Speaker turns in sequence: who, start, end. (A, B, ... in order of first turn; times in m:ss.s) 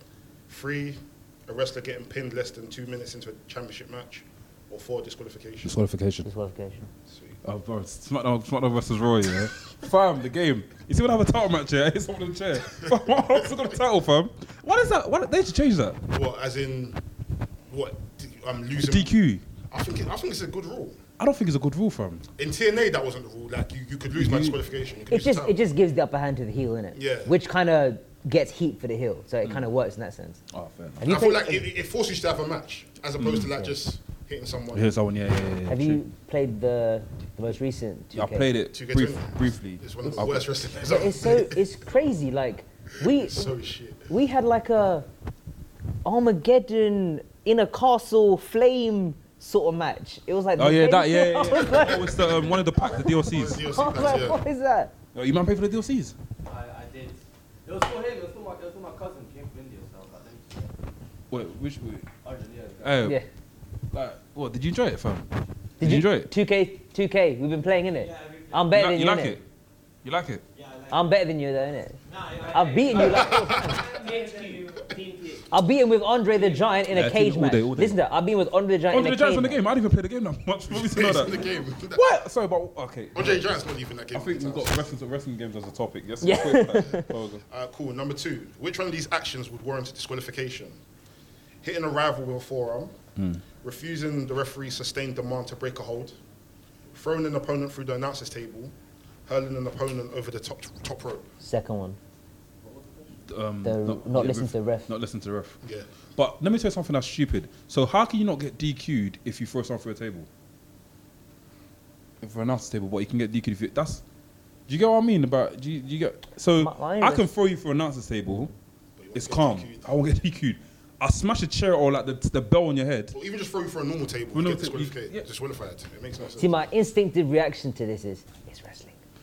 0:00.5-0:05.7 A
0:05.6-0:06.3 B
0:06.2-0:06.9 C
0:07.1-0:07.4 A
0:07.4-0:16.0 B
0:16.1-0:17.0 A
0:17.7-0:19.1 A
0:18.8-0:19.4 B
0:19.7-0:21.0 A
0:21.2-0:22.2 B
0:22.4-0:25.6 A
0:24.2-0:24.6 B
0:25.1-0:30.4 C
0:26.9-0:27.3 A
0:30.5-0:31.0 B
0:31.0-0:31.6 C
0:31.0-0:35.5 A
0:33.2-0:33.5 B
0:34.7-0:36.0 B
0:35.7-0:38.5 C
0:38.1-0:40.4 B
0:38.7-0:41.6 A
0:40.0-0:43.5 C
0:43.0-0:44.1 A
0:44.1-0:45.1 C
0:46.0-0:52.2 C
0:50.6-0:53.6 B
0:51.6-0:54.4 A
0:53.6-0:54.9 C
0:55.1-0:56.2 B
0:56.4-1:00.7 D
1:01.3-1:02.1 B
1:02.2-1:02.9 D
1:02.8-1:03.2 B
1:03.9-1:05.3 B
1:05.8-1:06.3 B
1:05.8-1:09.4 C
1:08.1-1:08.5 D
1:08.7-1:09.4 B
1:10.0-1:10.4 B
1:10.6-1:10.9 D
1:10.9-1:13.8 C
1:12.1-1:15.4 D
1:13.0-1:14.0 A
1:15.5-1:19.6 C
1:16.9-1:18.0 B
1:18.9-1:23.4 B
1:20.7-1:22.1 A
1:23.1-1:24.9 A
1:24.1-1:27.4 B
1:26.2-1:27.1 C
1:27.5-1:30.8 A
1:31.6-1:33.0 A
1:33.2-1:33.4 B
1:33.6-1:36.2 A
1:36.9-1:38.7 A
1:39.3-1:41.2 A
1:41.4-1:42.0 C
1:42.6-1:43.1 D
1:43.3-1:45.6 B
1:43.6-1:44.9 C
1:45.6-1:45.9 A
1:46.2-1:50.3 B
1:52.2-1:54.0 B
1:54.7-1:58.5 B
1:56.6-1:57.3 C
1:59.0-1:59.9 A
1:59.1-2:03.1 B
2:03.1-2:06.6 A
2:04.3-2:05.2 B
2:06.4-2:09.0 C